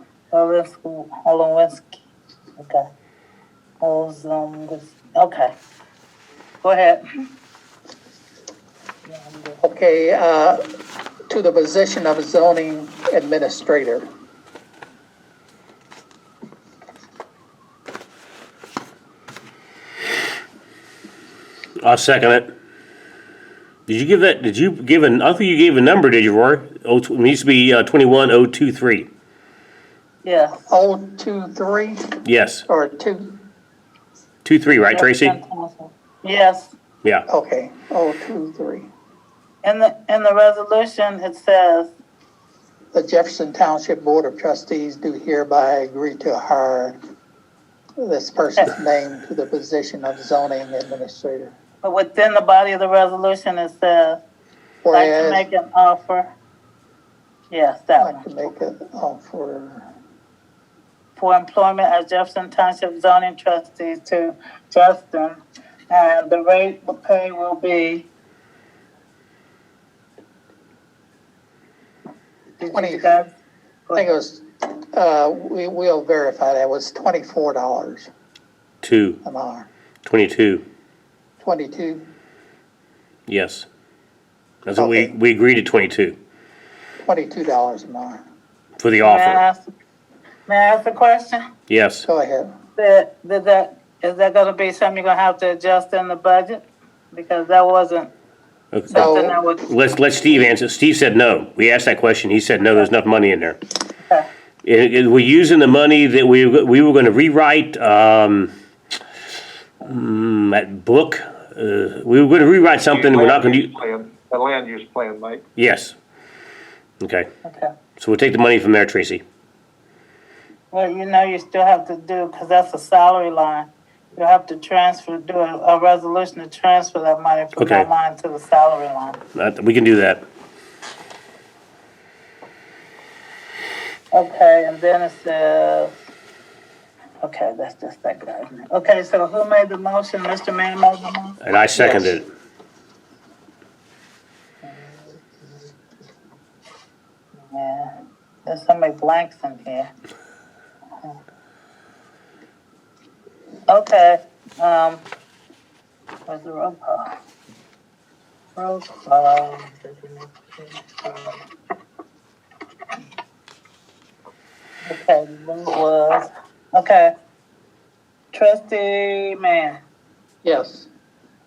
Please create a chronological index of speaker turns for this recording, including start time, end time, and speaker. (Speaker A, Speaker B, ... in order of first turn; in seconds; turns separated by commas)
Speaker A: 0.3-1.9, Speaker A: 2.6-2.9, Speaker A: 3.8-5.5, Speaker A: 6.6-7.0, Speaker A: 9.1-9.6, Speaker B: 9.6-10.6, Speaker B: 11.3-14.1, Speaker C: 21.8-22.5, Speaker C: 23.9-29.1, Speaker A: 30.2-30.6, Speaker B: 30.7-33.4, Speaker C: 32.2-32.6, Speaker C: 34.4-35.4, Speaker A: 34.9-36.7, Speaker B: 37.3-38.9, Speaker A: 39.6-41.9, Speaker B: 42.9-47.0, Speaker B: 48.0-51.5, Speaker A: 51.8-54.2, Speaker B: 54.8-55.4, Speaker A: 54.9-56.3, Speaker A: 57.5-58.2, Speaker B: 58.0-59.9, Speaker A: 61.1-68.1, Speaker A: 72.6-73.3, Speaker B: 72.7-73.1, Speaker B: 73.9-78.1, Speaker C: 78.8-79.2, Speaker B: 79.2-79.7, Speaker C: 80.0-80.6, Speaker B: 81.4-82.0, Speaker C: 83.3-83.6, Speaker C: 84.7-86.2, Speaker B: 84.8-85.1, Speaker B: 87.0-88.2, Speaker C: 88.8-89.4, Speaker A: 89.0-89.7, Speaker A: 90.5-91.4, Speaker C: 91.7-92.1, Speaker B: 92.0-92.5, Speaker A: 92.8-98.1, Speaker C: 98.7-99.1, Speaker B: 98.9-99.4, Speaker A: 99.0-99.6, Speaker C: 99.7-103.6, Speaker C: 104.6-108.5, Speaker C: 109.8-113.7, Speaker D: 112.9-115.4, Speaker C: 115.6-115.9, Speaker C: 117.0-117.3, Speaker A: 117.4-117.7, Speaker C: 118.0-119.2, Speaker A: 120.7-129.2, Speaker C: 127.6-127.9, Speaker C: 129.3-130.2, Speaker A: 134.1-135.9, Speaker A: 137.2-141.4, Speaker C: 141.4-142.3, Speaker B: 141.7-142.2, Speaker A: 144.7-145.7, Speaker A: 147.5-147.9, Speaker A: 148.4-149.9, Speaker A: 153.7-155.0, Speaker A: 156.3-157.2, Speaker A: 158.6-161.4, Speaker A: 164.8-167.1, Speaker A: 168.3-169.8, Speaker B: 170.4-170.9